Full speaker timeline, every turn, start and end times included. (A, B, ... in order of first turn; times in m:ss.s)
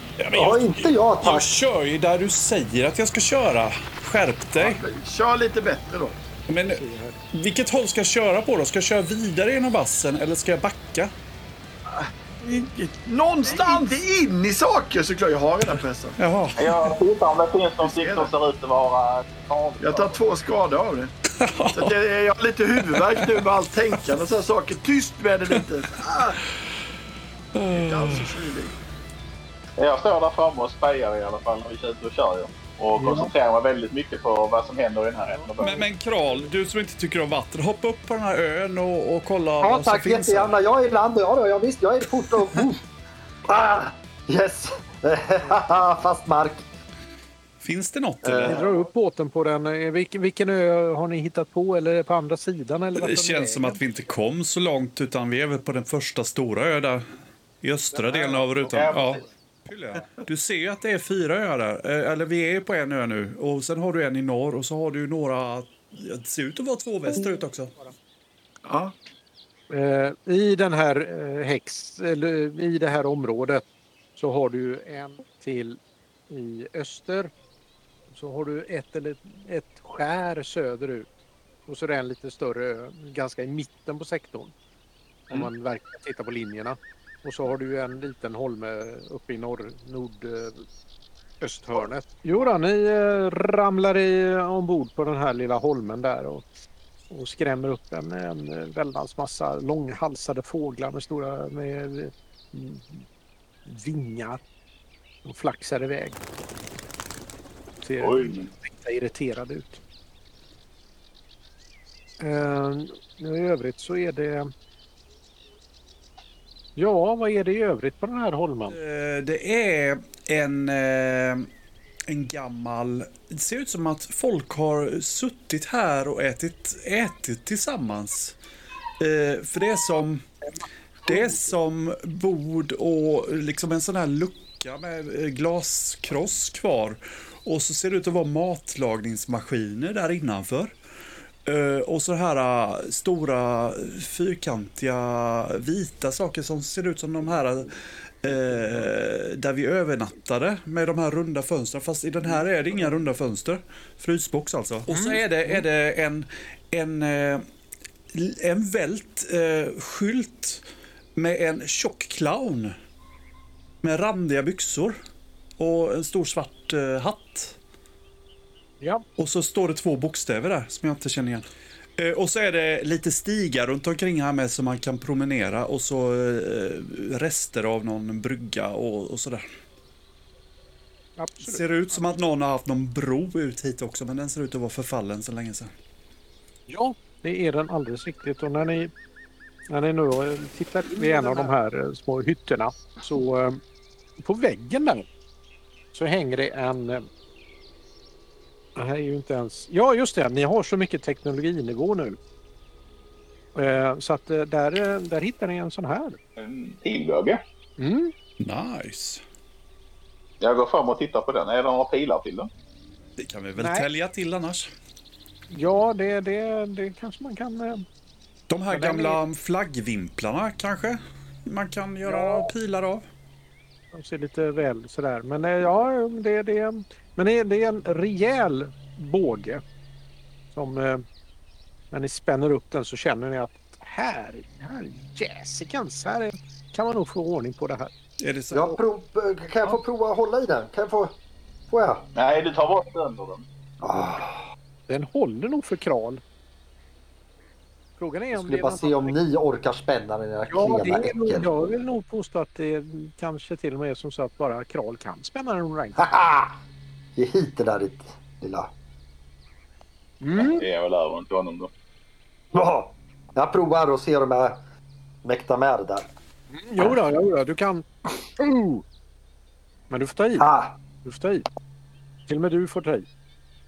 0:00.2-0:04.8 A
0:00.3-0:01.5 B
0:04.6-0:06.2 C
0:06.5-0:11.1 A
0:06.7-0:07.2 D
0:11.9-0:16.2 C
0:13.5-0:13.9 A
0:16.2-0:17.0 A
0:16.6-0:20.2 E
0:17.8-0:18.3 C
0:19.8-0:21.1 C
0:21.3-0:22.0 A
0:21.7-0:26.4 C
0:22.8-0:23.4 A
0:27.5-0:28.4 A
0:27.6-0:28.8 C
0:29.8-0:35.9 E
0:33.0-0:33.3 D
0:35.6-0:40.6 A
0:39.6-0:42.8 B
0:43.5-0:46.7 B
0:47.6-0:48.6 A
0:48.2-0:48.6 B
0:48.5-0:53.8 D
0:48.5-0:48.8 E
0:53.0-0:57.0 A
0:57.6-1:07.7 A
0:57.9-0:59.0 D
0:58.7-0:59.2 E
1:08.6-1:08.9 C
1:09.7-1:13.6 D
1:14.2-1:17.3 D
1:18.1-1:21.1 D
1:21.7-1:24.5 D
1:25.3-1:30.7 D
1:31.4-1:36.5 D
1:37.1-1:43.0 D
1:43.7-1:44.4 D
1:45.2-1:46.2 D
1:47.8-1:49.8 D
1:48.0-1:48.5 E
1:52.2-1:54.5 D
1:56.8-1:58.8 D
1:58.7-2:01.5 A
2:02.1-2:08.4 A
2:09.0-2:10.2 A
2:11.0-2:20.8 A
2:11.1-2:11.5 D
2:21.5-2:37.4 A
2:34.9-2:35.6 D
2:38.1-2:40.6 A
2:41.2-2:42.7 A
2:43.8-2:45.0 A
2:45.6-2:47.6 A
2:49.2-2:51.4 A
2:52.0-2:59.4 A
3:01.2-3:02.0 D
3:01.4-3:05.7 A
3:06.7-3:08.9 D
3:09.7-3:13.6 D
3:14.2-3:15.1 D
3:15.9-3:17.1 D
3:18.8-3:22.2 D
3:23.6-3:26.2 D
3:26.4-3:27.4 E
3:27.8-3:28.1 D
3:28.4-3:29.2 A
3:30.4-3:32.5 E
3:33.2-3:34.7 A
3:33.6-3:33.9 D
3:35.5-3:37.8 D
3:38.5-3:43.0 A
3:38.7-3:39.2 D
3:42.0-3:42.5 D
3:43.9-3:49.6 D
3:50.5-3:51.0 D
3:51.9-3:57.9 D
3:58.2-3:58.8 A
3:58.5-4:01.2 B
4:01.7-4:02.0 B
4:02.2-4:03.4 E
4:03.8-4:04.4 B
4:04.9-4:06.2 D
4:08.0-4:09.2 D
4:08.3-4:11.5 B
4:10.5-4:16.2 D
4:16.0-4:16.6 B
4:17.2-4:18.7 B
4:20.2-4:20.7 D
4:20.4-4:21.7 E
4:22.5-4:24.6 B
4:25.2-4:26.1 B
4:26.5-4:27.9 D
4:28.4-4:28.8 D
4:29.9-4:30.5 D
4:30.4-4:30.8 B
4:31.0-4:31.5 D
4:32.3-4:33.1 D